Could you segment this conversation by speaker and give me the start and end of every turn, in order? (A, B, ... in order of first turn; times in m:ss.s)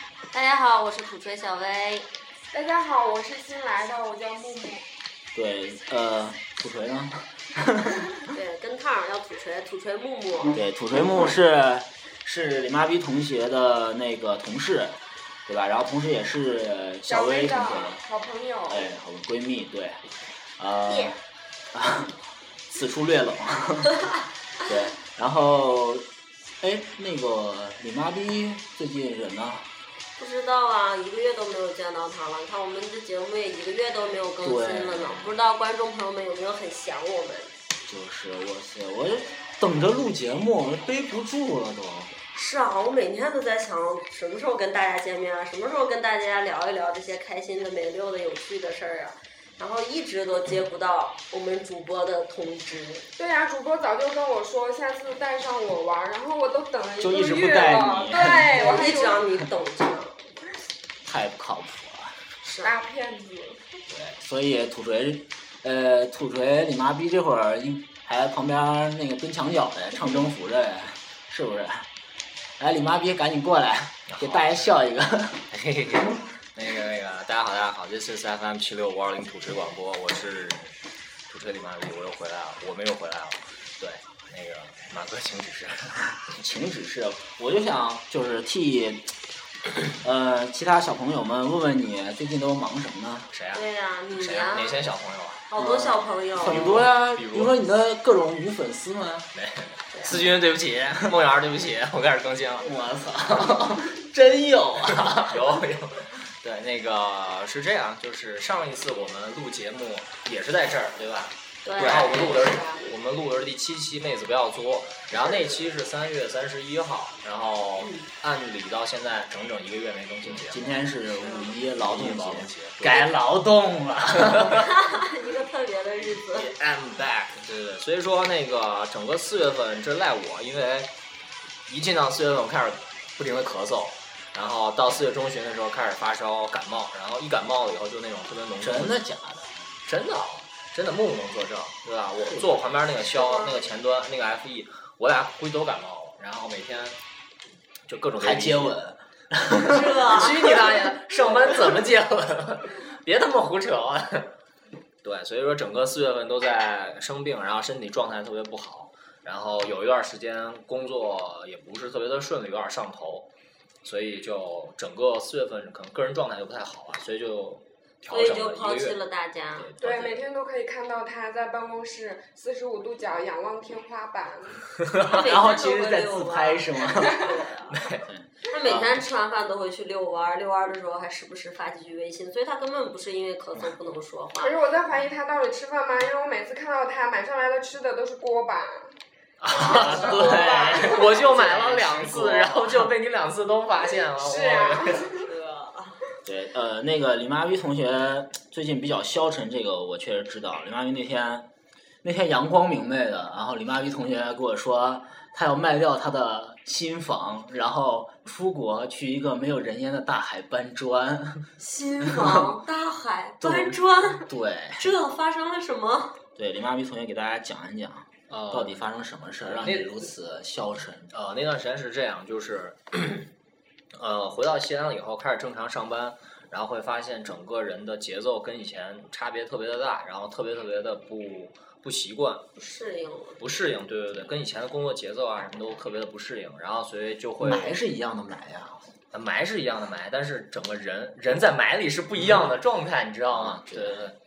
0:00.3-0:02.1 A
0:02.5-0:04.8 B
0:05.3-0:08.2 C
0:08.3-0:10.6 A
0:10.5-0:18.0 C
0:17.1-0:18.9 B
0:18.7-0:20.0 C
0:20.6-0:21.2 C
0:20.9-0:21.2 A
0:21.7-0:24.1 C
0:24.6-0:26.1 C
0:26.6-0:29.7 C
0:30.2-0:37.5 A
0:34.4-0:35.4 C
0:37.8-0:42.2 C
0:42.3-0:53.1 A
0:53.2-0:59.2 B
0:57.0-0:58.8 C
0:58.6-1:00.2 A
1:01.0-1:02.2 C
1:02.4-1:02.7 A
1:02.6-1:03.6 B
1:03.9-1:11.9 C
1:12.6-1:15.4 C
1:14.1-1:14.6 D
1:15.5-1:20.8 D
1:21.3-1:26.1 D
1:26.3-1:29.1 C
1:29.6-1:33.3 C
1:33.3-1:33.6 D
1:33.5-1:34.9 A
1:34.2-1:35.5 D
1:35.5-1:36.8 A
1:35.6-1:39.3 C
1:36.4-1:37.6 D
1:39.3-1:42.7 D
1:39.9-1:40.2 A
1:40.1-1:40.4 C
1:42.6-1:45.4 C
1:45.0-2:03.1 D
1:51.6-1:52.9 A
1:55.2-1:55.6 A
1:57.8-1:58.1 A
2:00.2-2:04.7 C
2:04.2-2:04.5 D
2:04.5-2:06.5 A
2:06.3-2:10.9 D
2:11.7-2:19.0 D
2:18.6-2:19.8 C
2:19.8-2:27.0 D
2:22.2-2:22.6 C
2:23.0-2:23.7 A
2:27.9-2:28.8 D
2:28.2-2:30.4 C
2:29.6-2:30.6 A
2:30.0-2:34.4 D
2:35.0-2:43.3 D
2:43.8-2:49.0 D
2:48.1-2:49.7 A
2:49.6-2:50.2 D
2:49.8-2:54.6 B
2:55.0-2:57.8 A
2:55.1-2:57.3 C
2:57.7-2:58.1 D
2:58.1-2:59.0 C
2:58.5-3:04.6 A
3:04.4-3:08.9 B
3:09.4-3:15.2 D
3:09.6-3:12.9 C
3:09.6-3:11.2 A
3:09.7-3:11.2 B
3:14.2-3:15.3 B
3:15.2-3:16.0 A
3:16.3-3:21.5 C
3:22.0-3:31.5 C
3:31.6-3:36.2 A
3:32.1-3:32.4 C
3:33.4-3:34.9 C
3:36.4-3:41.1 C
3:38.3-3:38.8 D
3:39.4-3:40.1 D
3:41.1-3:43.3 D
3:44.0-3:52.5 D
3:52.6-3:53.4 A
3:53.4-3:57.8 D
3:57.4-3:58.9 C
3:59.1-4:04.2 D
4:03.3-4:04.1 C